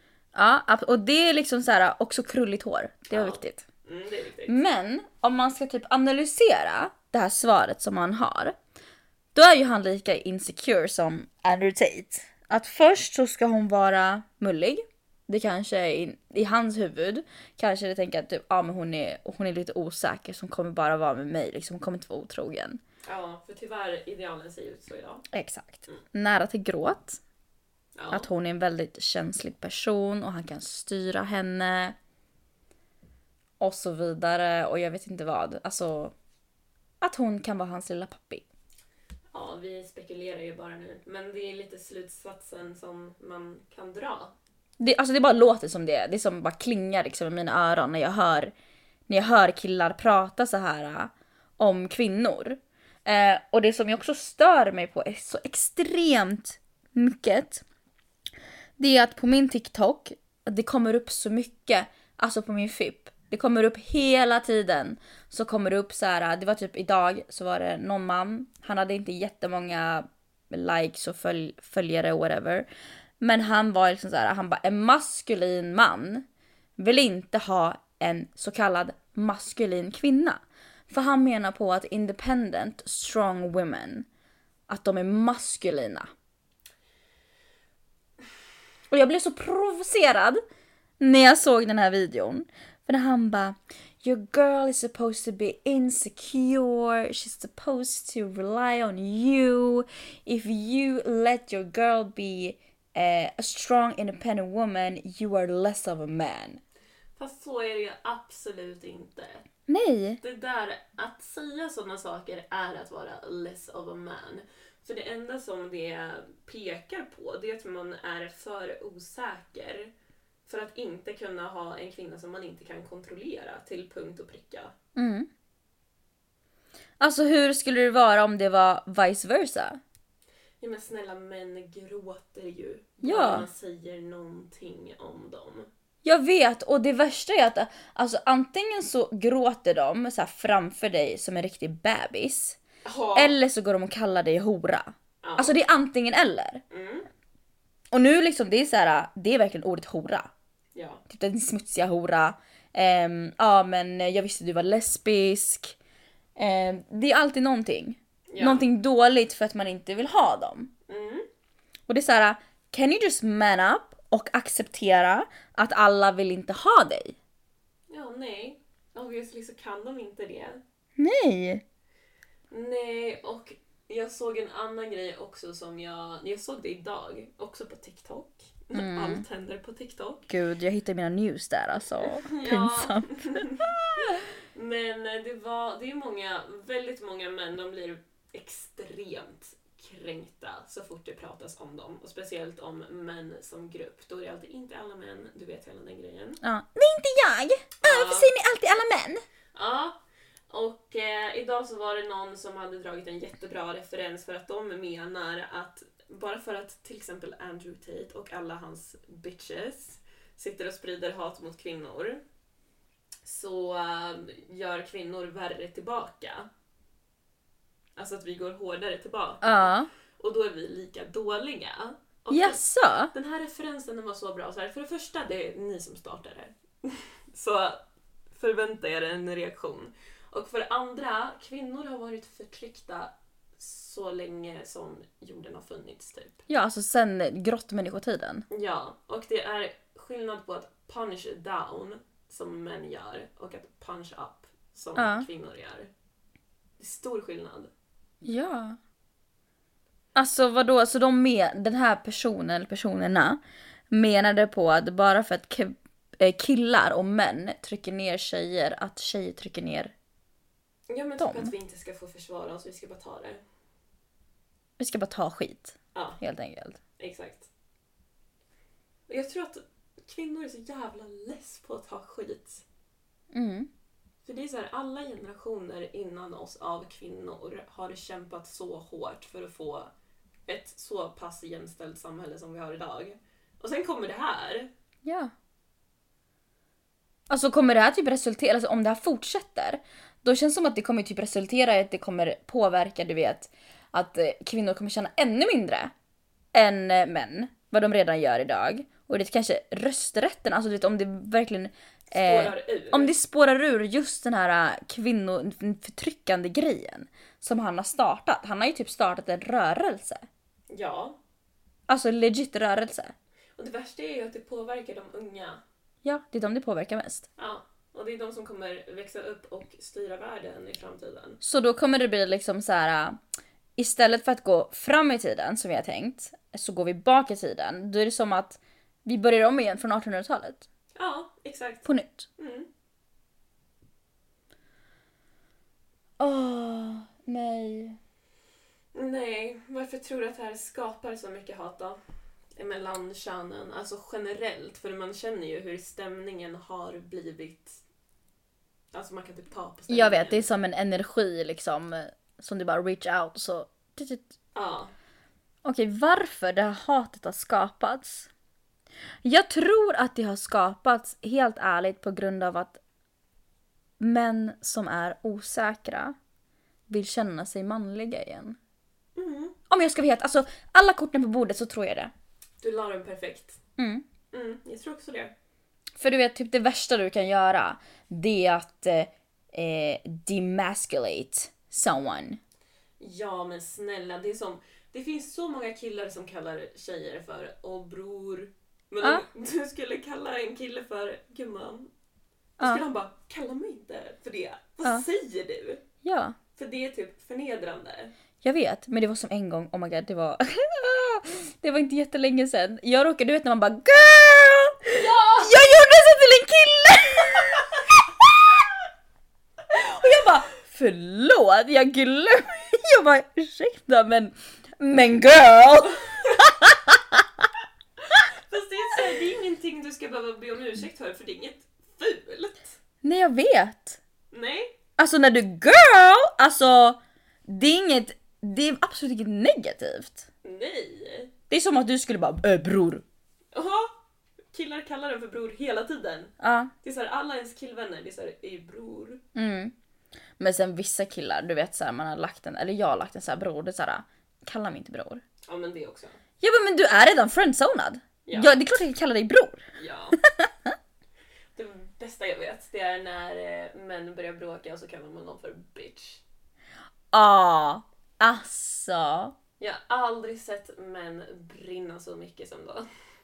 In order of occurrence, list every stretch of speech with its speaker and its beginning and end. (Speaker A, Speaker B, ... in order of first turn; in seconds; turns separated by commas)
Speaker A: 0.3-3.7, Speaker B: 3.1-4.6, Speaker A: 4.5-8.6, Speaker A: 9.3-22.8, Speaker B: 23.1-25.2, Speaker A: 25.3-27.2, Speaker B: 28.0-28.3, Speaker A: 28.1-32.0, Speaker A: 33.6-36.1, Speaker A: 37.0-38.5, Speaker B: 39.3-44.4, Speaker A: 44.8-48.5, Speaker A: 49.1-57.6, Speaker A: 58.8-72.7, Speaker A: 73.2-76.3, Speaker A: 76.8-84.1, Speaker A: 84.7-86.1, Speaker A: 88.9-90.4, Speaker A: 91.0-106.6, Speaker B: 107.2-109.5, Speaker A: 109.7-110.2, Speaker B: 110.2-119.9, Speaker B: 120.5-124.8, Speaker A: 125.0-125.3, Speaker A: 127.0-129.8, Speaker B: 130.6-135.7, Speaker A: 133.0-133.5, Speaker A: 136.0-142.6, Speaker B: 142.8-143.3, Speaker A: 143.2-146.6, Speaker B: 145.2-145.6, Speaker B: 146.7-147.1, Speaker A: 147.9-150.3, Speaker B: 150.8-151.0, Speaker A: 151.1-155.8, Speaker A: 156.4-160.7, Speaker B: 158.3-158.7, Speaker B: 160.9-161.3, Speaker A: 161.9-167.2, Speaker B: 167.9-170.6, Speaker A: 171.0-171.6, Speaker B: 172.5-180.3, Speaker A: 178.7-179.2, Speaker A: 180.3-183.7, Speaker B: 182.0-196.4, Speaker A: 196.4-199.2, Speaker B: 197.8-198.3, Speaker B: 199.5-212.2, Speaker B: 213.2-216.5, Speaker B: 218.0-236.4, Speaker A: 219.4-219.9, Speaker A: 222.3-223.1, Speaker A: 236.5-238.4, Speaker B: 238.5-245.9, Speaker A: 245.0-245.3, Speaker B: 246.8-247.7, Speaker A: 248.2-248.8, Speaker A: 250.2-259.9, Speaker B: 260.9-263.4, Speaker A: 261.2-261.5, Speaker A: 264.8-266.8, Speaker B: 265.9-266.2, Speaker B: 267.0-267.5, Speaker B: 269.1-272.6, Speaker A: 273.3-273.7, Speaker B: 274.2-279.9, Speaker B: 280.5-284.7, Speaker A: 285.1-285.3, Speaker A: 287.3-295.9, Speaker A: 296.5-310.3, Speaker B: 302.1-303.1, Speaker B: 310.7-311.2, Speaker A: 311.9-313.1, Speaker B: 313.6-315.6, Speaker A: 316.0-317.3, Speaker B: 317.4-321.4, Speaker A: 321.4-323.2, Speaker A: 323.8-330.7, Speaker B: 330.9-332.7, Speaker A: 331.9-332.3, Speaker A: 336.2-338.0, Speaker B: 338.9-342.0, Speaker B: 342.6-347.8, Speaker B: 348.9-350.5, Speaker A: 349.9-354.4, Speaker B: 354.6-354.9, Speaker A: 355.6-358.3, Speaker A: 359.2-362.8, Speaker A: 364.0-366.2, Speaker A: 366.9-368.6, Speaker B: 369.2-369.6, Speaker A: 369.7-372.1, Speaker B: 372.6-373.6, Speaker A: 373.8-374.1, Speaker B: 374.3-375.3, Speaker A: 376.0-382.4, Speaker B: 383.0-391.9, Speaker B: 392.6-395.8, Speaker A: 396.0-396.4, Speaker B: 396.6-398.1, Speaker A: 398.4-408.6, Speaker B: 404.9-405.6, Speaker A: 409.7-417.5, Speaker B: 418.1-422.8, Speaker A: 423.0-424.0, Speaker B: 424.3-424.8, Speaker A: 425.0-430.3, Speaker B: 430.4-431.3, Speaker A: 431.5-433.0, Speaker B: 433.5-434.0, Speaker B: 434.5-439.2, Speaker A: 436.4-436.7, Speaker A: 439.4-439.7, Speaker A: 440.4-445.2, Speaker B: 445.5-446.2, Speaker A: 446.4-449.6, Speaker B: 448.3-448.6, Speaker B: 449.8-450.2, Speaker A: 450.2-450.7, Speaker B: 451.6-456.2, Speaker A: 457.1-459.4, Speaker B: 459.6-462.9